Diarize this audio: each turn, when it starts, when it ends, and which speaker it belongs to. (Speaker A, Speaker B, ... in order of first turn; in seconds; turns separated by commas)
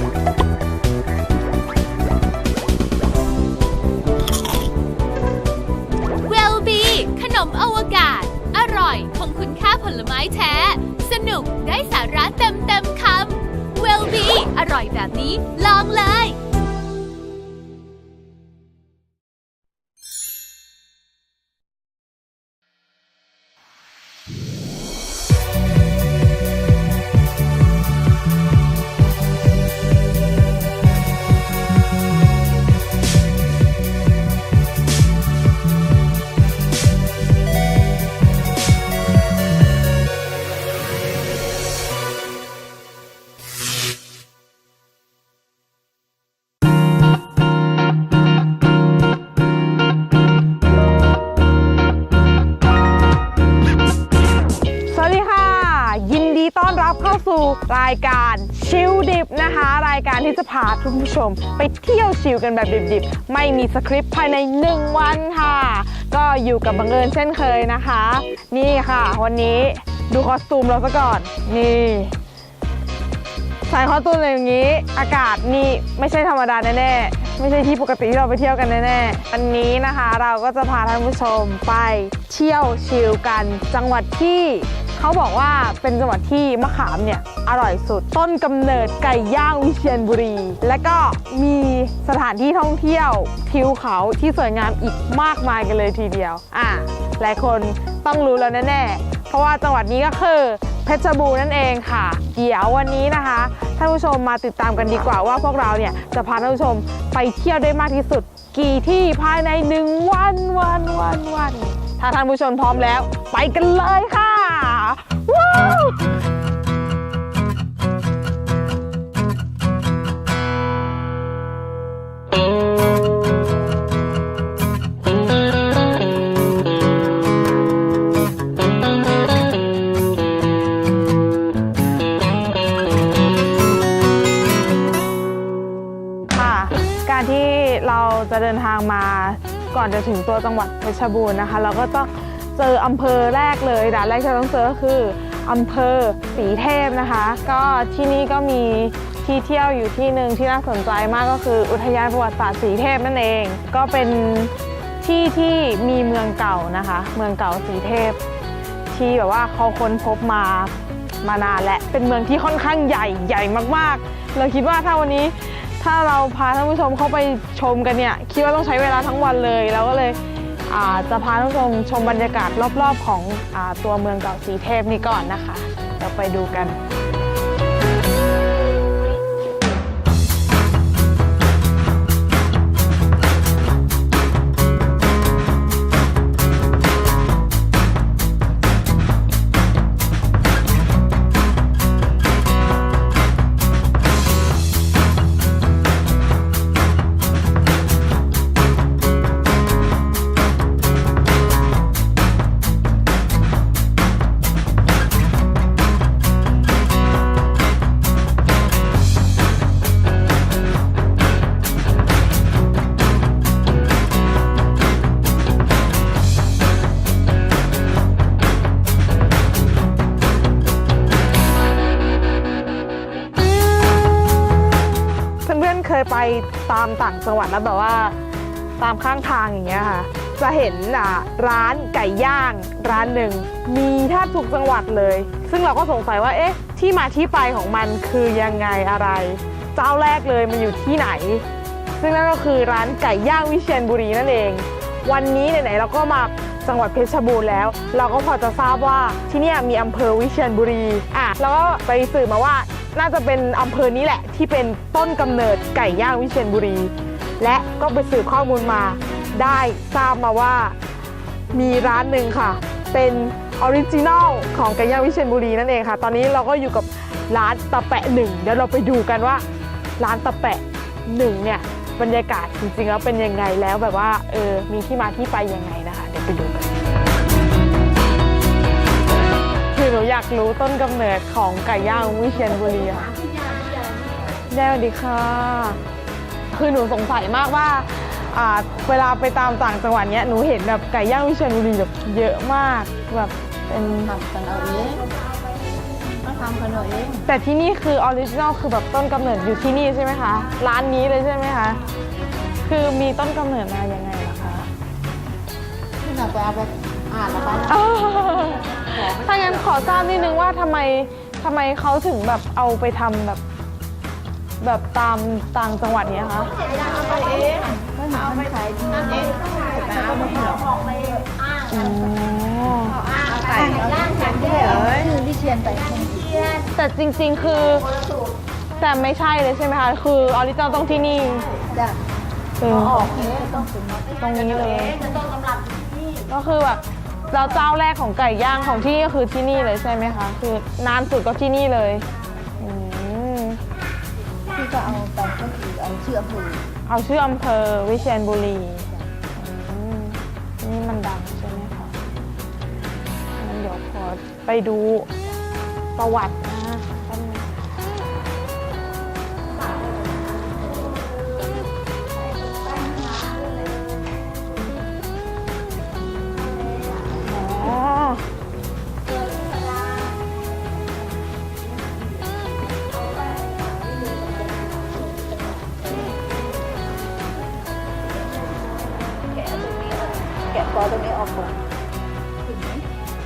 Speaker A: 6.2-16.4, Speaker B: 54.9-72.1, Speaker B: 73.7-116.1, Speaker B: 136.3-158.2, Speaker B: 158.9-176.8, Speaker B: 225.4-228.2, Speaker B: 228.8-241.4, Speaker B: 241.9-260.8, Speaker B: 261.5-269.4, Speaker B: 270.0-276.8, Speaker B: 279.7-283.1, Speaker B: 284.5-285.8, Speaker B: 286.5-294.2, Speaker C: 294.2-295.1, Speaker C: 296.2-297.2, Speaker B: 297.2-301.8, Speaker B: 302.6-304.7, Speaker C: 306.0-307.6, Speaker B: 307.5-313.4, Speaker B: 314.6-316.5, Speaker C: 316.8-321.2, Speaker B: 321.7-323.0, Speaker C: 323.1-326.6, Speaker B: 326.7-327.9, Speaker B: 328.8-331.5, Speaker B: 332.6-333.1, Speaker C: 332.8-334.1, Speaker B: 334.2-335.2, Speaker B: 336.3-342.1, Speaker B: 342.6-343.6, Speaker C: 344.5-346.6, Speaker B: 346.9-352.0, Speaker B: 353.4-355.1, Speaker B: 355.9-357.6, Speaker B: 367.2-368.2, Speaker C: 379.4-381.5